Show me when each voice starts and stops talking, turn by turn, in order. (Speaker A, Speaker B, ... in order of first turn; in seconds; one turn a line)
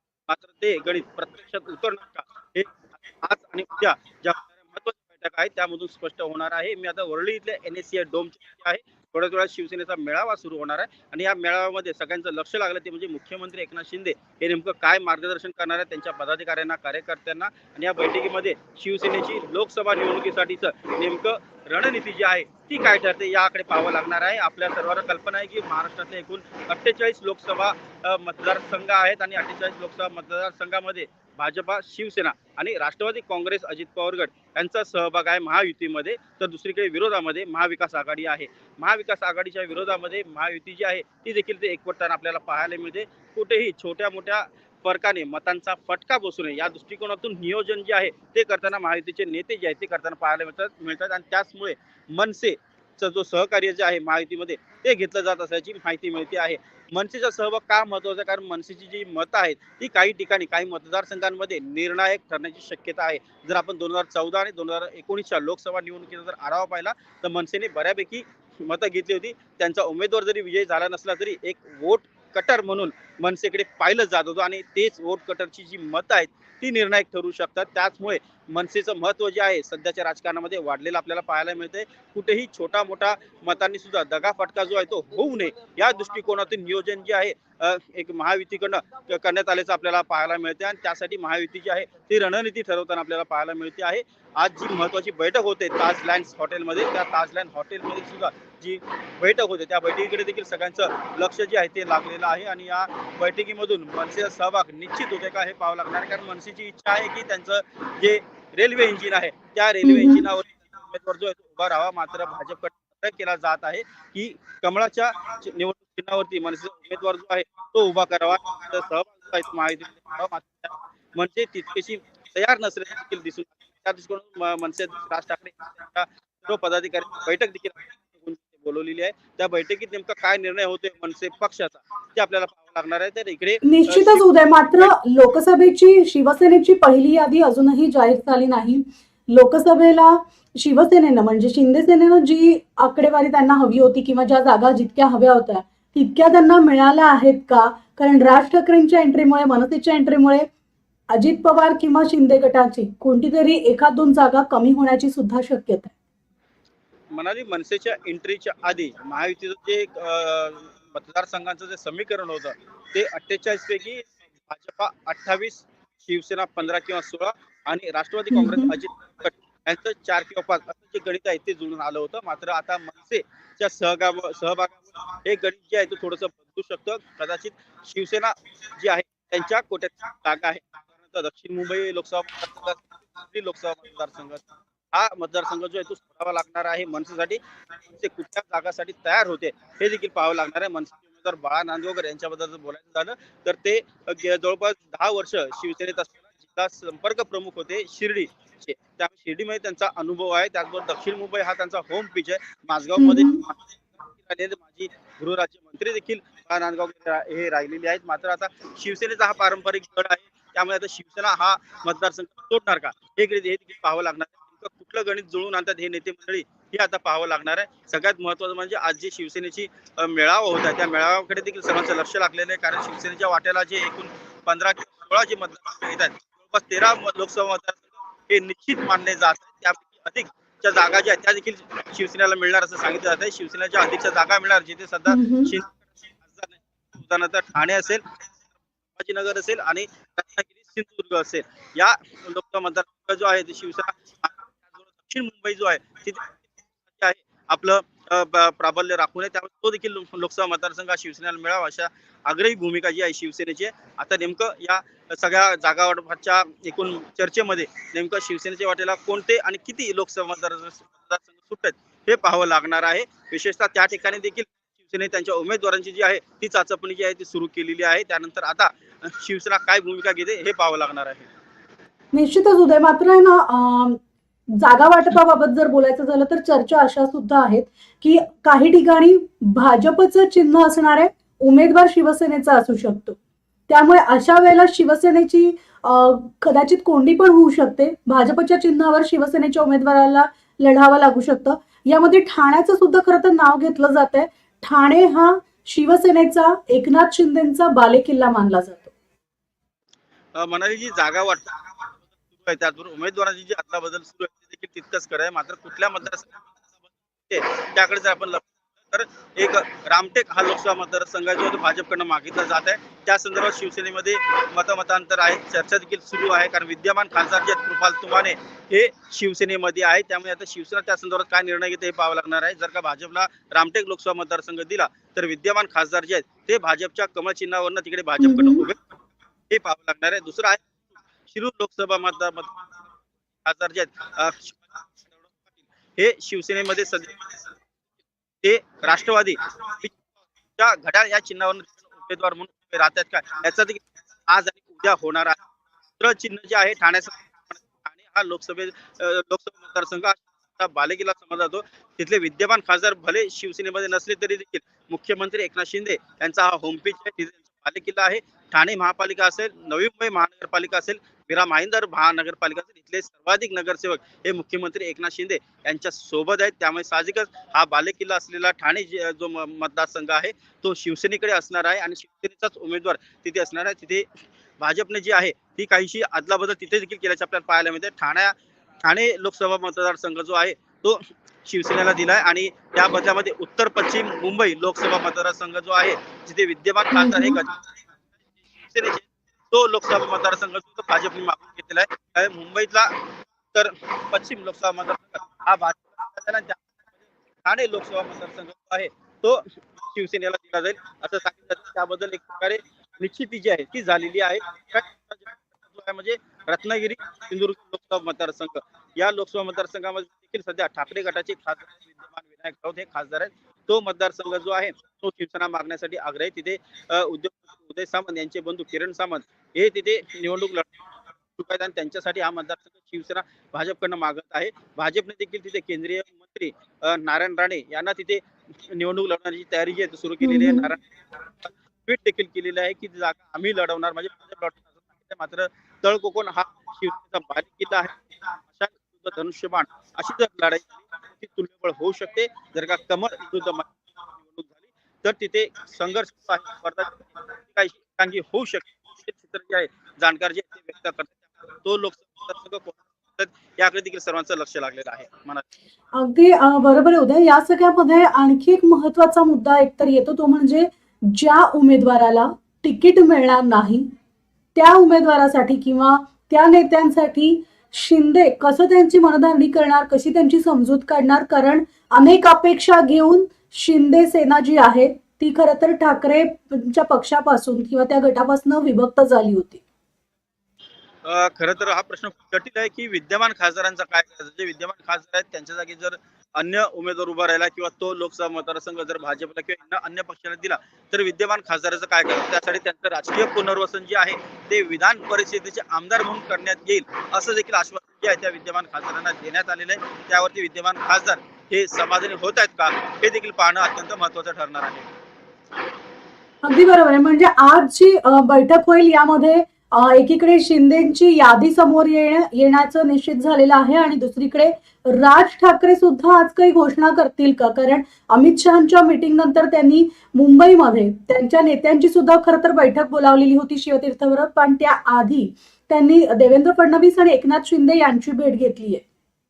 Speaker A: 0.3-134.2
Speaker B: 109.8-110.3
Speaker B: 133.6-150.4
Speaker B: 151.1-155.9
Speaker A: 157.1-187.4
Speaker B: 168.3-168.7
Speaker A: 187.9-203.6
Speaker B: 203.0-203.4
Speaker A: 204.1-238.0
Speaker B: 235.1-235.5
Speaker A: 238.9-246.4
Speaker A: 246.9-271.3
Speaker B: 272.1-274.0
Speaker B: 274.6-283.2
Speaker B: 283.7-298.9
Speaker A: 300.3-306.5
Speaker A: 307.3-328.8
Speaker B: 328.2-328.7
Speaker A: 329.5-330.6
Speaker A: 331.3-332.6
Speaker A: 333.4-337.2
Speaker A: 338.4-340.0
Speaker A: 340.6-345.4
Speaker A: 346.0-374.1
Speaker A: 374.6-387.5
Speaker B: 386.9-387.4
Speaker A: 388.7-396.6
Speaker A: 397.4-420.7
Speaker A: 421.4-430.8
Speaker B: 430.2-430.8
Speaker A: 431.4-438.0
Speaker A: 438.5-455.4
Speaker B: 455.9-463.9
Speaker B: 464.5-479.6
Speaker A: 481.0-504.9
Speaker B: 506.4-528.8